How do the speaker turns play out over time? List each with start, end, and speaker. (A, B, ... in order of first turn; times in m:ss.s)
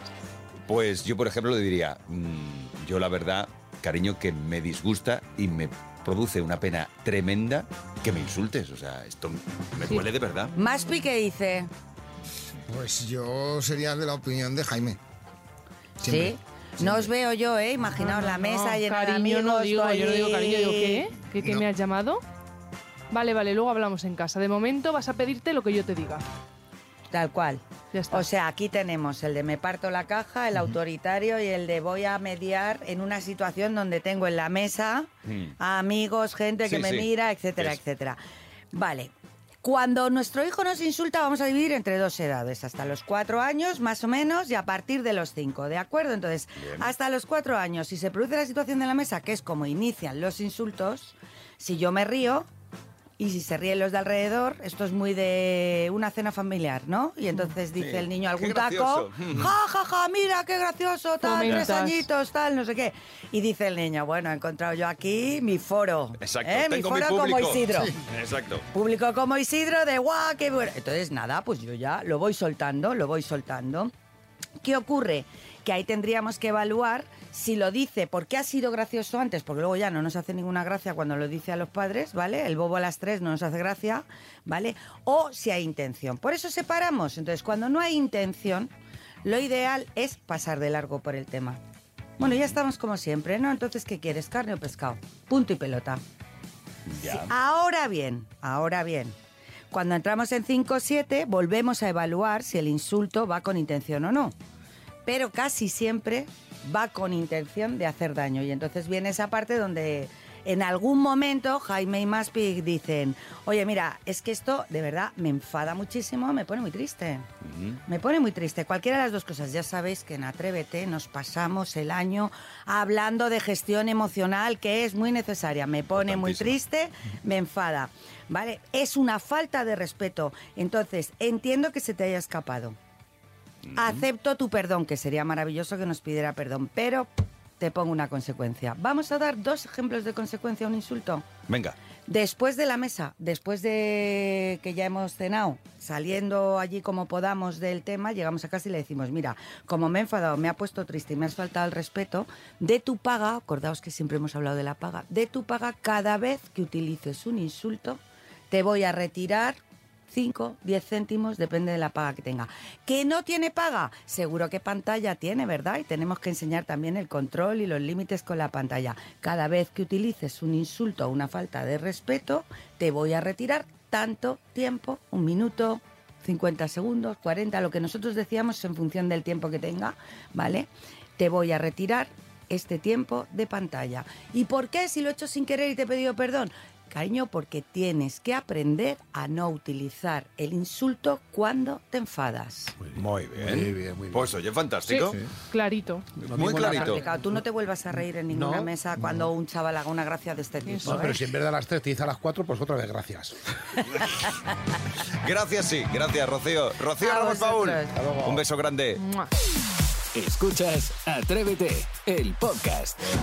0:00.7-0:10.5 A
0:10.6-0:11.7 B
0:12.7-0:15.0 C
0:16.0-0:17.1 C
0:16.0-0:21.1 B
0:18.0-0:22.2 D
0:23.1-0:26.2 D
0:27.1-0:38.2 B
0:27.9-0:28.3 D
0:35.3-0:35.5 A
0:36.6-0:37.8 A
0:38.7-0:39.1 B
0:39.6-0:52.5 B
0:46.6-0:46.9 A
0:53.2-1:08.0 B
0:57.8-0:59.5 A
1:01.2-1:02.1 D
1:06.2-1:08.6 A
1:08.7-1:13.9 B
1:14.6-1:28.7 B
1:29.2-1:31.6 B
1:32.2-1:36.0 B
1:36.9-1:37.3 A
1:37.0-1:39.1 B
1:39.7-1:44.4 B
1:45.1-1:57.3 B
1:57.4-1:57.8 A
1:57.9-2:12.8 B
2:05.9-2:06.6 A
2:13.7-2:14.0 A
2:13.8-2:21.3 B
2:21.5-2:21.8 A
2:22.1-2:39.6 B
2:40.1-3:12.8 B
3:12.8-3:14.3 E
3:13.0-3:15.2 A
3:14.9-3:16.1 D
3:16.2-3:17.4 E
3:16.3-3:17.0 A
3:16.7-3:21.1 B
3:18.3-3:18.7 E
3:20.6-3:21.2 D
3:20.8-3:23.4 E
3:25.2-3:29.0 A
3:27.0-3:27.9 B
3:28.0-3:28.4 E
3:29.0-3:29.3 D
3:30.1-3:33.0 F